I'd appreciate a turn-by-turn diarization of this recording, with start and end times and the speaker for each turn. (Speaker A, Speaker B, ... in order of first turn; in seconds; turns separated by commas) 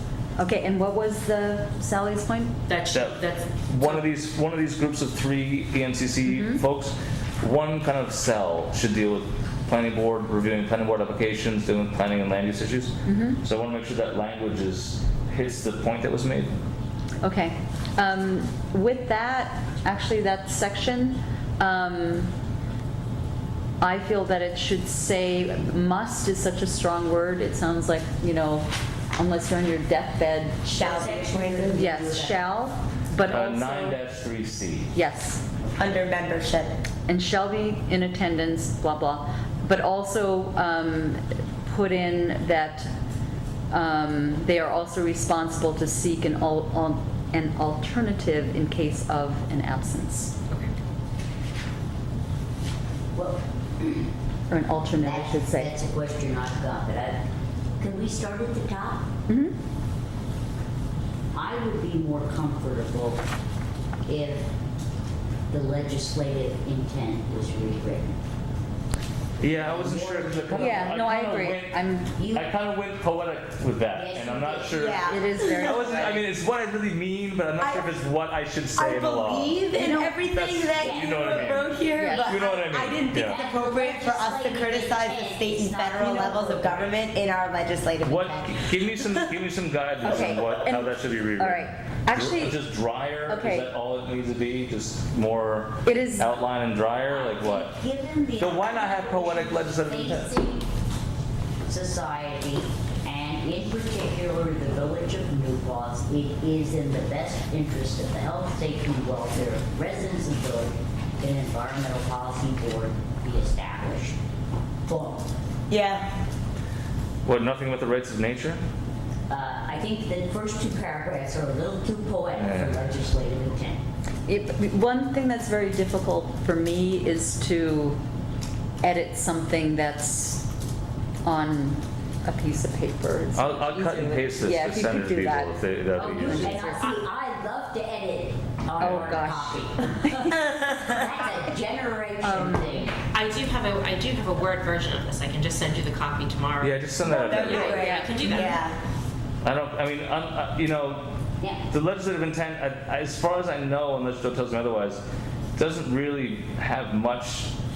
Speaker A: 0.4-2.5, Speaker B: 2.7-4.0, Speaker C: 2.9-16.6, Speaker A: 6.2-6.6, Speaker A: 13.0-13.4, Speaker A: 17.2-22.3, Speaker A: 23.8-30.6, Speaker D: 30.6-32.0, Speaker E: 30.8-32.4, Speaker A: 31.7-34.0, Speaker C: 33.3-34.9, Speaker A: 34.9-35.4, Speaker D: 35.8-36.7, Speaker A: 37.1-42.9, Speaker A: 43.7-50.3, Speaker E: 53.1-54.1, Speaker A: 54.5-55.7, Speaker E: 55.0-57.2, Speaker E: 57.8-59.0, Speaker A: 59.3-59.5, Speaker E: 61.3-63.2, Speaker E: 64.0-64.5, Speaker E: 65.5-68.2, Speaker C: 69.4-71.8, Speaker E: 69.4-71.4, Speaker A: 70.5-72.1, Speaker E: 72.2-72.5, Speaker C: 72.3-79.6, Speaker E: 73.9-74.9, Speaker D: 74.7-75.8, Speaker A: 75.1-76.3, Speaker D: 77.6-77.8, Speaker D: 78.8-88.5, Speaker C: 80.3-83.4, Speaker E: 80.8-81.6, Speaker A: 82.0-82.4, Speaker E: 83.2-87.0, Speaker C: 88.0-97.8, Speaker A: 90.0-92.6, Speaker A: 93.3-93.7, Speaker A: 95.8-96.4, Speaker E: 97.1-100.7, Speaker C: 98.4-100.3, Speaker E: 101.7-114.2, Speaker E: 114.8-115.2, Speaker D: 115.7-116.1, Speaker C: 117.2-118.6, Speaker E: 119.3-123.8, Speaker C: 122.4-122.8, Speaker A: 124.3-128.0, Speaker A: 128.8-130.5, Speaker A: 131.2-137.0, Speaker C: 133.3-136.7, Speaker E: 136.1-142.9, Speaker A: 138.8-140.8, Speaker C: 138.8-139.2, Speaker A: 142.2-142.9, Speaker B: 143.1-148.7, Speaker C: 146.6-147.8, Speaker D: 147.0-148.8, Speaker A: 147.8-148.5, Speaker C: 149.4-151.1, Speaker C: 151.7-155.0, Speaker C: 155.6-157.5